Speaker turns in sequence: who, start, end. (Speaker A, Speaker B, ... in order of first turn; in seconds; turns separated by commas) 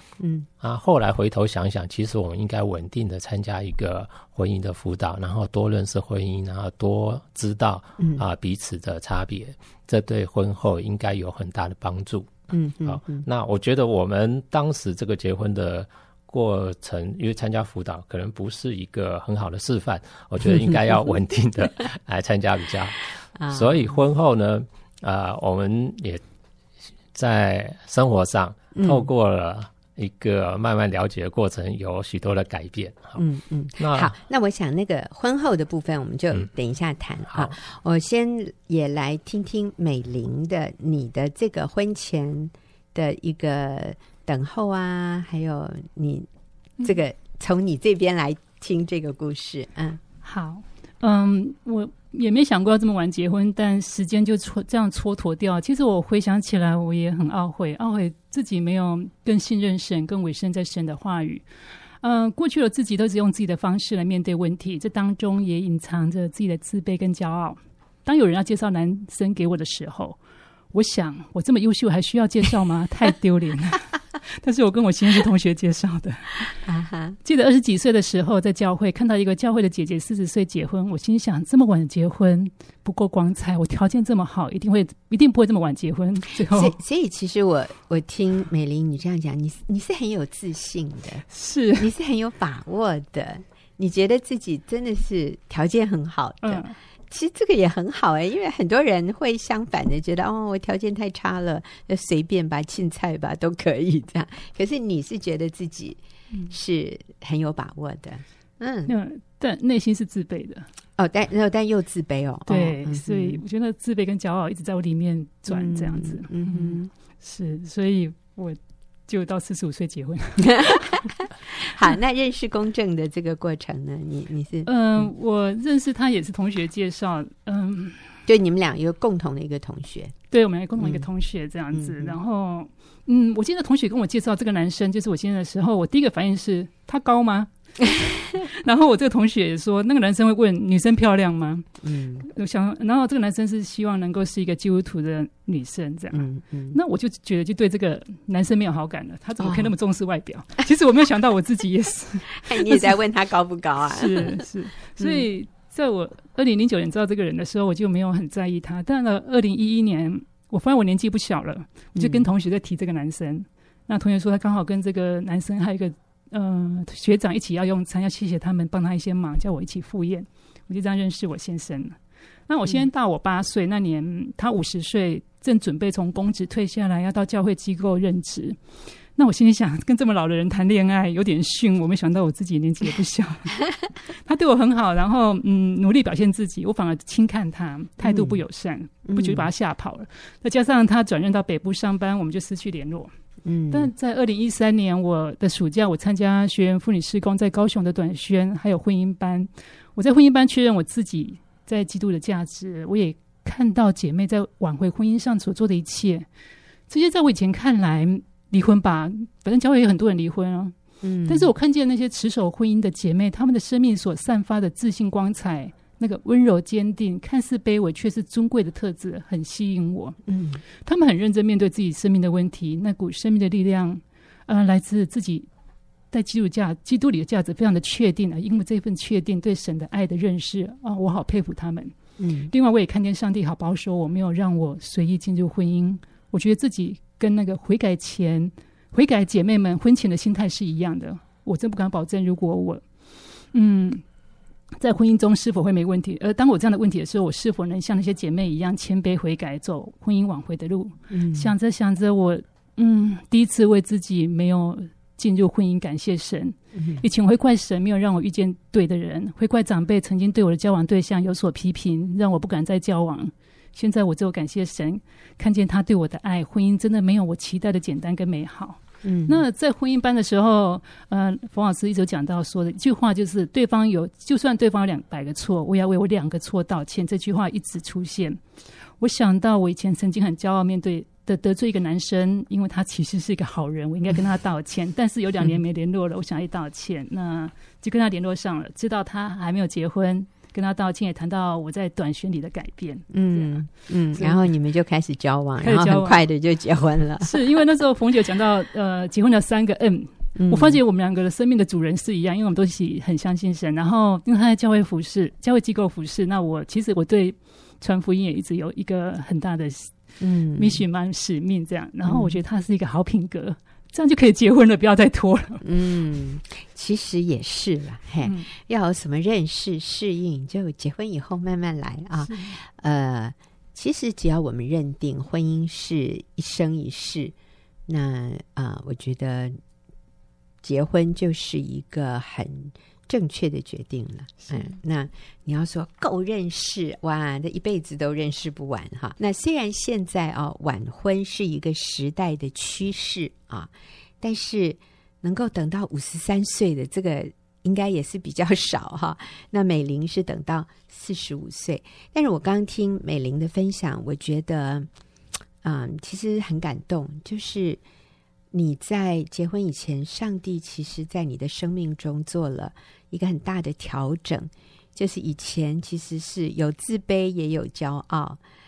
Speaker A: 0.2-0.5, Speaker B: 0.6-26.2, Speaker A: 12.5-13.3, Speaker A: 20.5-20.8, Speaker A: 23.4-24.0, Speaker B: 27.1-33.2, Speaker A: 28.7-29.1, Speaker A: 33.2-46.3, Speaker B: 33.8-34.1, Speaker A: 46.8-50.0, Speaker C: 50.2-61.4, Speaker C: 62.0-70.2, Speaker C: 70.7-76.5, Speaker A: 76.6-77.2, Speaker C: 77.2-86.8, Speaker A: 86.5-91.2, Speaker C: 91.3-91.9, Speaker A: 91.8-108.9, Speaker C: 96.4-96.8, Speaker C: 108.9-110.7, Speaker A: 111.0-113.4, Speaker C: 112.5-120.8, Speaker A: 115.5-116.9, Speaker A: 120.4-125.0, Speaker C: 124.7-128.1, Speaker A: 128.3-130.1, Speaker C: 130.3-137.5, Speaker A: 130.8-131.1, Speaker A: 131.7-132.2, Speaker C: 138.4-141.7, Speaker A: 141.8-142.3, Speaker C: 142.2-152.9, Speaker A: 146.1-146.8, Speaker A: 149.4-149.7, Speaker A: 152.4-154.4, Speaker C: 153.9-172.0, Speaker A: 155.0-155.2, Speaker A: 161.9-162.3, Speaker C: 172.5-178.6, Speaker C: 179.2-193.1, Speaker A: 188.0-188.4, Speaker A: 189.1-189.5, Speaker A: 193.4-193.9, Speaker C: 193.7-206.3, Speaker C: 206.9-210.7, Speaker A: 211.0-211.5, Speaker C: 211.3-220.2, Speaker A: 220.3-220.6, Speaker C: 220.8-225.5, Speaker C: 226.1-231.9, Speaker A: 232.2-232.5, Speaker C: 232.5-242.8, Speaker C: 243.5-244.0, Speaker C: 244.8-278.4, Speaker A: 251.1-251.5, Speaker A: 256.8-257.0, Speaker A: 269.0-269.4, Speaker C: 279.0-293.6, Speaker A: 293.1-297.4, Speaker C: 294.2-294.4, Speaker C: 295.6-296.2, Speaker C: 297.2-310.0, Speaker A: 300.4-300.8, Speaker A: 310.2-310.8, Speaker C: 310.6-315.6, Speaker A: 312.1-312.4, Speaker A: 315.6-327.3, Speaker C: 322.2-322.5, Speaker A: 327.9-329.6, Speaker A: 330.6-354.9, Speaker A: 355.6-357.8, Speaker A: 358.5-368.4